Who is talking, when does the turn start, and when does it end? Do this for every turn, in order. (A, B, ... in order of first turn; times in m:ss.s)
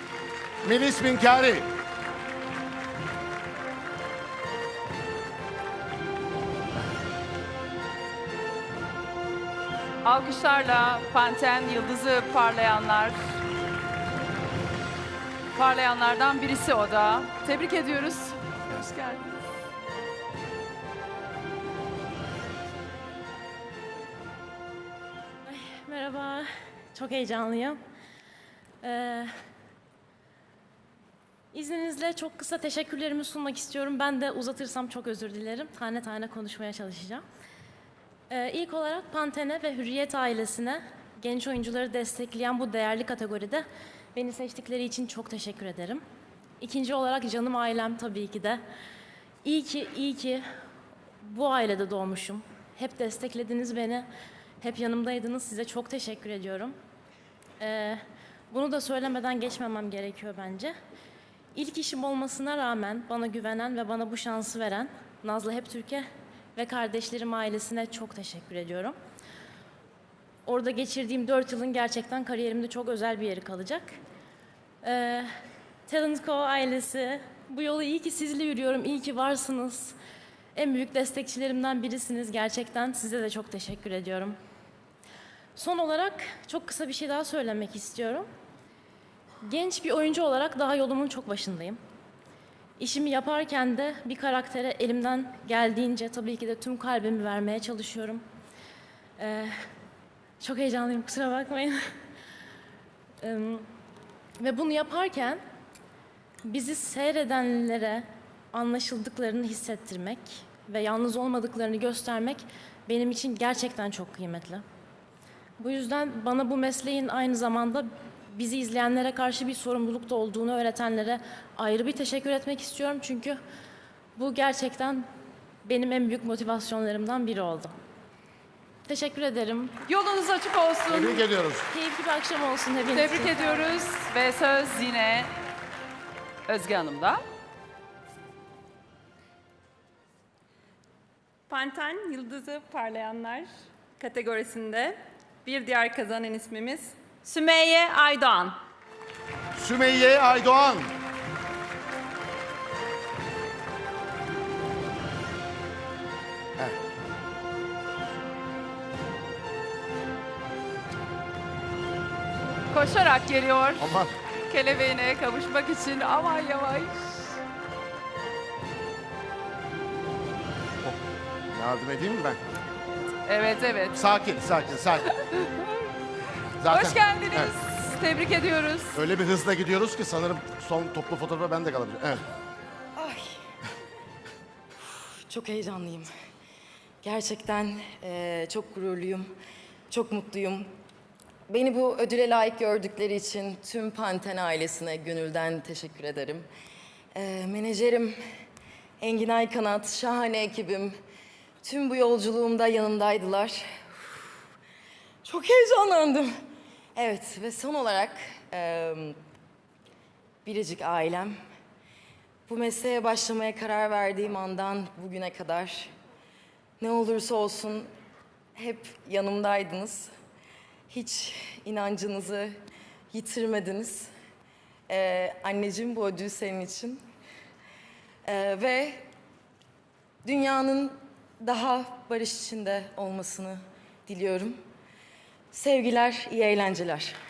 0:00.6-0:01.7 A
0:10.0-0:13.2 B
0:15.5-0:19.4 B
0:25.4-0:27.8 C
0:28.8-0:29.3 C
0:31.5-0:37.2 C
0:38.3-0:46.0 C
0:46.6-0:48.6 C
0:49.4-0:50.4 C
0:51.2-0:54.1 C
0:54.6-0:56.7 C
0:57.6-1:00.7 C
1:01.5-1:09.0 C
1:10.4-1:14.0 C
1:14.8-1:15.3 C
1:15.9-1:20.0 C
1:20.5-1:24.4 C
1:25.5-1:28.3 C
1:29.4-1:31.8 C
1:32.8-1:38.2 C
1:39.2-1:39.5 C
1:40.4-1:41.8 C
1:43.2-1:43.6 C
1:44.4-1:45.4 C
1:46.4-1:54.6 C
1:55.6-2:03.4 C
2:04.1-2:05.0 C
2:05.6-2:07.7 C
2:08.8-2:09.7 C
2:09.8-2:11.2 B
2:10.9-2:11.6 A
2:11.7-2:13.7 C
2:12.9-2:15.3 B
2:16.5-2:17.2 B
2:21.5-2:28.5 D
2:29.6-2:30.9 A
2:42.7-2:47.3 B
2:43.8-2:44.1 A
2:51.5-2:52.4 A
2:53.2-2:54.0 B
2:53.9-2:55.1 A
2:55.2-2:55.7 B
2:56.6-2:57.5 A
2:56.7-2:59.0 B
2:58.9-3:02.2 A
3:03.0-3:03.3 E
3:05.3-3:06.1 E
3:07.0-3:09.3 E
3:09.9-3:10.6 E
3:11.5-3:16.4 E
3:17.1-3:18.2 E
3:19.0-3:20.9 E
3:21.6-3:23.8 E
3:25.2-3:26.3 E
3:26.9-3:29.1 E
3:30.4-3:31.3 E
3:32.5-3:35.9 E
3:36.8-3:37.9 E
3:38.6-3:40.1 E
3:40.9-3:42.5 E
3:43.1-3:44.1 E
3:44.9-3:47.0 E
3:48.2-3:49.0 E
3:50.2-3:54.6 E
3:55.5-3:57.2 E